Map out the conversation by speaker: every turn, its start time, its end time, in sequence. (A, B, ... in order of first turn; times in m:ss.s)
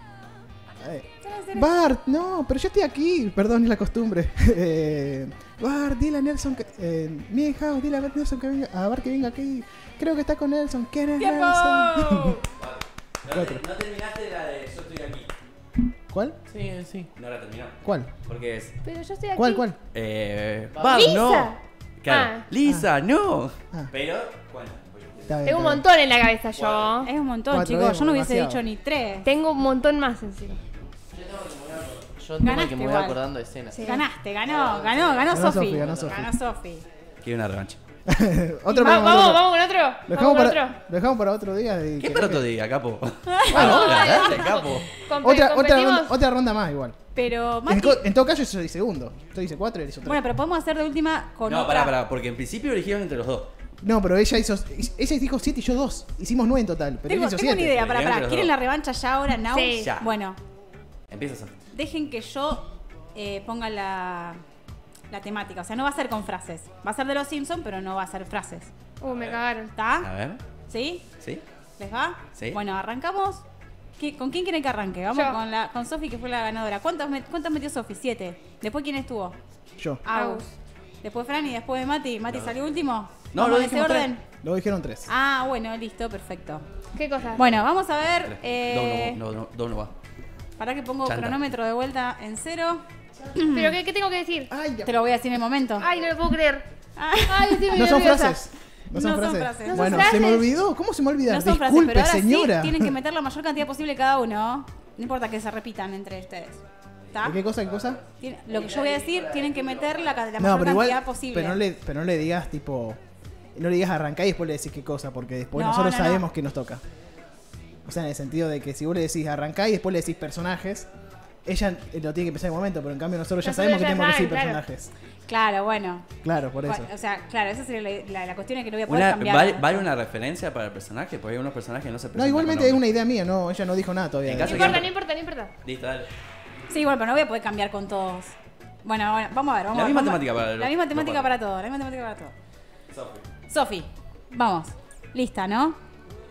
0:00.8-0:12.4 A
0:01.2-0:01.8 B
0:11.2-0:12.4 B
0:12.6-0:15.3 C
0:13.3-0:13.6 A
0:16.1-0:16.4 A
0:16.5-0:17.1 D
0:17.2-0:18.8 C
0:17.8-0:18.1 A
0:18.8-0:19.6 E
0:19.4-0:19.8 A
0:19.9-0:25.4 C
0:20.7-0:21.2 D
0:20.9-0:21.6 E
0:22.1-0:22.4 E
0:25.3-0:25.8 A
0:25.4-0:27.1 E
0:26.5-0:27.0 C
0:27.0-0:29.3 B
0:27.5-0:28.6 A
0:29.2-0:30.6 E
0:31.1-0:33.9 D
0:32.4-0:33.2 B
0:33.7-0:34.0 E
0:33.8-0:36.8 B
0:34.5-0:36.2 D
0:35.3-0:36.2 A
0:37.2-0:37.8 C
0:38.0-0:39.5 A
0:38.7-0:40.8 E
0:40.0-0:42.5 A
0:42.0-0:44.9 C
0:43.3-0:44.0 B
0:43.5-0:46.1 E
0:43.6-0:44.0 A
0:45.2-0:47.0 A
0:47.1-0:48.0 B
0:47.6-0:50.2 A
0:50.0-0:51.9 B
0:51.4-0:53.5 C
0:53.8-0:57.9 A
0:57.1-1:00.4 B
0:57.7-0:58.5 C
0:59.5-0:59.9 E
0:59.8-1:00.1 C
1:01.1-1:01.5 C
1:01.7-1:04.4 B
1:05.1-1:08.7 B
1:09.0-1:09.7 E
1:09.1-1:09.4 C
1:09.8-1:10.1 B
1:10.0-1:10.4 C
1:10.7-1:11.0 B
1:11.8-1:13.4 B
1:14.0-1:19.4 B
1:19.8-1:20.0 A
1:20.0-1:24.2 B
1:20.1-1:20.4 E
1:23.3-1:24.1 C
1:24.4-1:25.1 A
1:25.1-1:26.6 B
1:27.0-1:27.6 E
1:27.4-1:29.2 B
1:28.2-1:29.9 C
1:30.6-1:33.8 B
1:31.0-1:31.4 C
1:33.4-1:34.5 E
1:34.5-1:35.0 A
1:34.8-1:35.9 B
1:35.8-1:36.7 E
1:37.0-1:38.2 B
1:37.3-1:38.4 E
1:37.7-1:42.9 A
1:38.9-1:40.2 B
1:39.7-1:40.5 E
1:41.3-1:47.4 B
1:47.2-1:48.0 A
1:47.6-1:50.0 D
1:48.2-1:51.6 B
1:50.4-1:53.0 A
1:53.5-1:56.8 A
1:55.5-1:56.3 B
1:57.8-2:00.9 A
2:01.5-2:04.9 A
2:03.4-2:04.6 E
2:05.3-2:06.1 B
2:06.2-2:06.9 A
2:06.6-2:09.9 B
2:08.9-2:12.9 C
2:12.1-2:14.9 A
2:14.2-2:14.9 C
2:14.4-2:15.5 E
2:15.6-2:16.1 C
2:16.7-2:22.3 B
2:19.7-2:21.3 C
2:22.9-2:23.2 C
2:23.5-2:25.8 B